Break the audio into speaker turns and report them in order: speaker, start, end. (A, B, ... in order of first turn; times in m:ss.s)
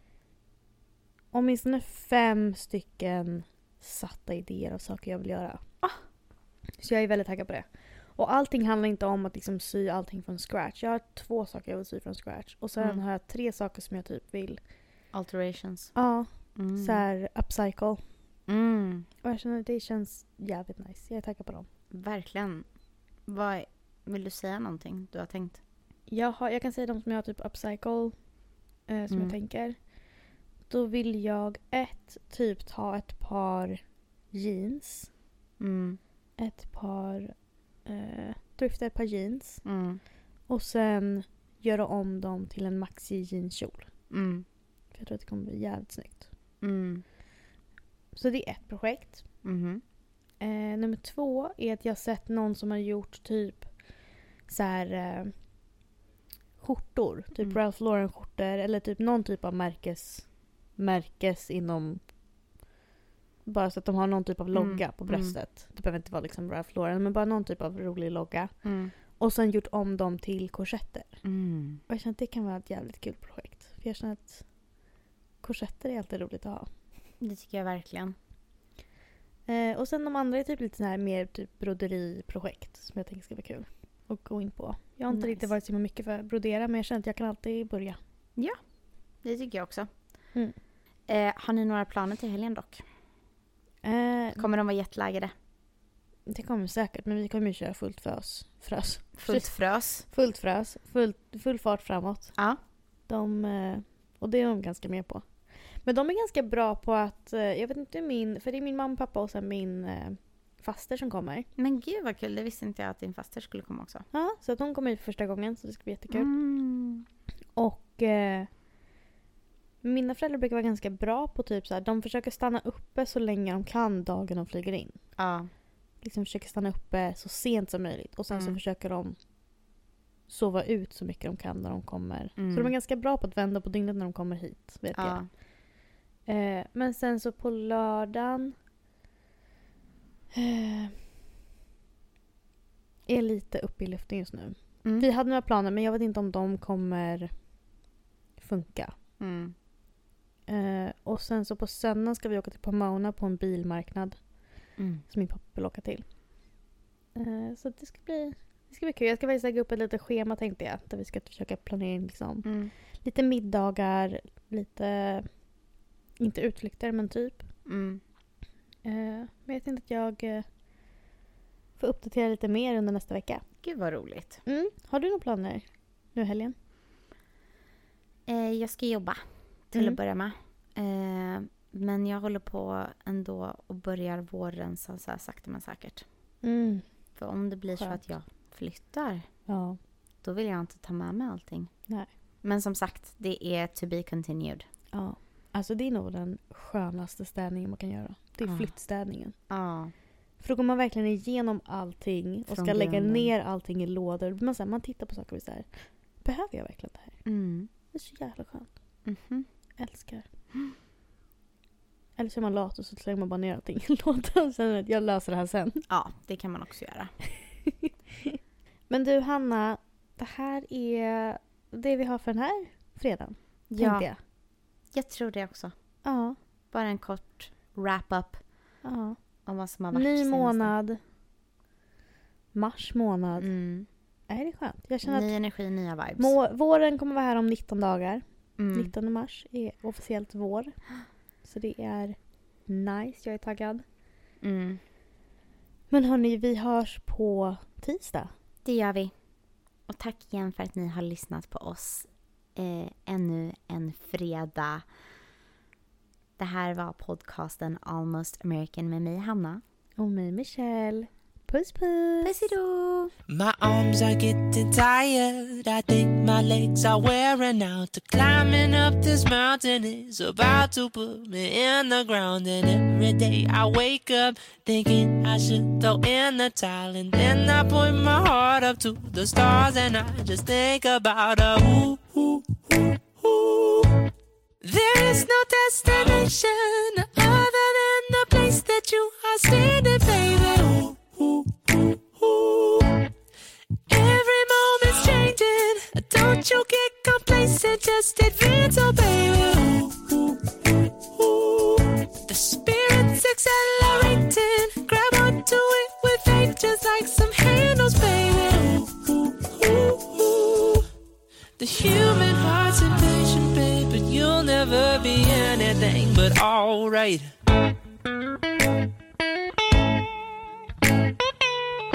0:01.3-0:05.6 A
0:06.8-0:14.6 A
0:15.1-0:15.9 B
0:15.9-0:18.0 A
0:16.6-0:17.0 B
0:18.5-0:19.1 B
0:19.2-0:21.6 A
0:21.9-0:22.6 B
0:23.3-0:25.6 B
0:26.1-0:28.1 A
0:28.9-0:29.8 A
0:29.1-0:29.4 B
0:30.7-0:33.8 A
0:34.3-0:35.1 A
0:35.6-0:36.0 B
0:36.4-0:37.3 A
0:37.8-0:39.6 A
0:39.6-0:40.0 B
0:40.5-0:43.9 A
0:44.1-0:44.4 B
0:44.9-0:46.3 A
0:46.6-0:47.0 B
0:48.1-0:49.2 A
0:49.4-0:49.8 B
0:50.4-0:53.7 A
0:54.5-0:55.3 A
0:56.6-1:00.2 A
1:00.8-1:02.0 A
1:03.4-1:08.5 A
1:04.5-1:05.4 B
1:08.6-1:08.9 B
1:09.2-1:11.1 A
1:11.2-1:11.8 B
1:11.9-1:14.4 A
1:15.4-1:16.7 A
1:17.2-1:18.2 B
1:19.5-1:28.0 A
1:25.1-1:25.4 B
1:29.2-1:29.9 B
1:31.1-1:32.8 B
1:33.8-1:34.5 A
1:34.4-1:35.3 B
1:36.3-1:39.5 A
1:39.2-1:40.0 B
1:40.0-1:42.3 A
1:43.1-1:45.2 A
1:45.8-1:51.4 A
1:51.6-1:54.0 B
1:54.1-1:56.3 A
1:56.1-1:57.0 B
1:57.6-1:58.5 A
1:59.8-2:05.0 A
2:05.2-2:05.5 B
2:06.0-2:09.2 A
2:08.3-2:08.6 B
2:10.3-2:15.2 A
2:12.4-2:12.7 B
2:14.9-2:15.3 B
2:16.3-2:18.5 A
2:20.3-2:21.0 A
2:23.1-2:27.3 A
2:28.4-2:28.9 A
2:29.2-2:29.5 B
2:30.5-2:34.1 A
2:34.8-2:35.0 B
2:35.1-2:36.0 A
2:37.2-2:42.4 A
2:42.4-2:42.7 B
2:43.0-2:45.2 A
2:46.2-2:47.4 A
2:47.7-2:48.0 B
2:48.8-2:50.4 A
2:51.8-2:53.4 A
2:53.6-2:54.4 B
2:54.4-2:56.5 A
2:58.3-3:06.0 B
3:06.4-3:06.8 A
3:07.2-3:09.2 B
3:07.7-3:08.0 A
3:09.5-3:09.8 A
3:10.2-3:11.7 B
3:12.4-3:14.6 B
3:14.9-3:19.3 A
3:18.4-3:18.7 B
3:19.5-3:19.9 B
3:20.4-3:25.7 A
3:22.5-3:23.3 B
3:26.2-3:27.2 A
3:27.2-3:27.7 B
3:27.9-3:28.7 A
3:29.0-3:29.5 B
3:29.8-3:30.2 A
3:32.2-3:35.8 A
3:35.9-3:37.1 B
3:37.6-3:38.4 A
3:38.9-3:44.2 A
3:43.7-3:44.1 B
3:44.9-3:45.7 B
3:46.0-3:46.4 A
3:46.7-3:48.4 B
3:48.8-3:49.2 A
3:49.4-3:50.7 B
3:49.9-3:51.0 A
3:52.5-3:53.5 A
3:53.4-3:53.9 B
3:54.3-3:55.3 A
3:55.0-3:56.3 B
3:56.2-4:00.7 A
3:58.6-3:58.9 B
4:01.4-4:02.2 A
4:02.7-4:03.8 A
4:04.4-4:04.8 B
4:05.9-4:08.3 A
4:08.6-4:09.1 B
4:09.9-4:14.8 B
4:16.4-4:19.6 B
4:20.0-4:22.5 A
4:22.2-4:23.1 B
4:23.3-4:44.0 C
4:44.6-4:53.0 C
4:53.9-5:00.4 C
5:01.2-5:10.9 C
5:11.6-5:17.3 C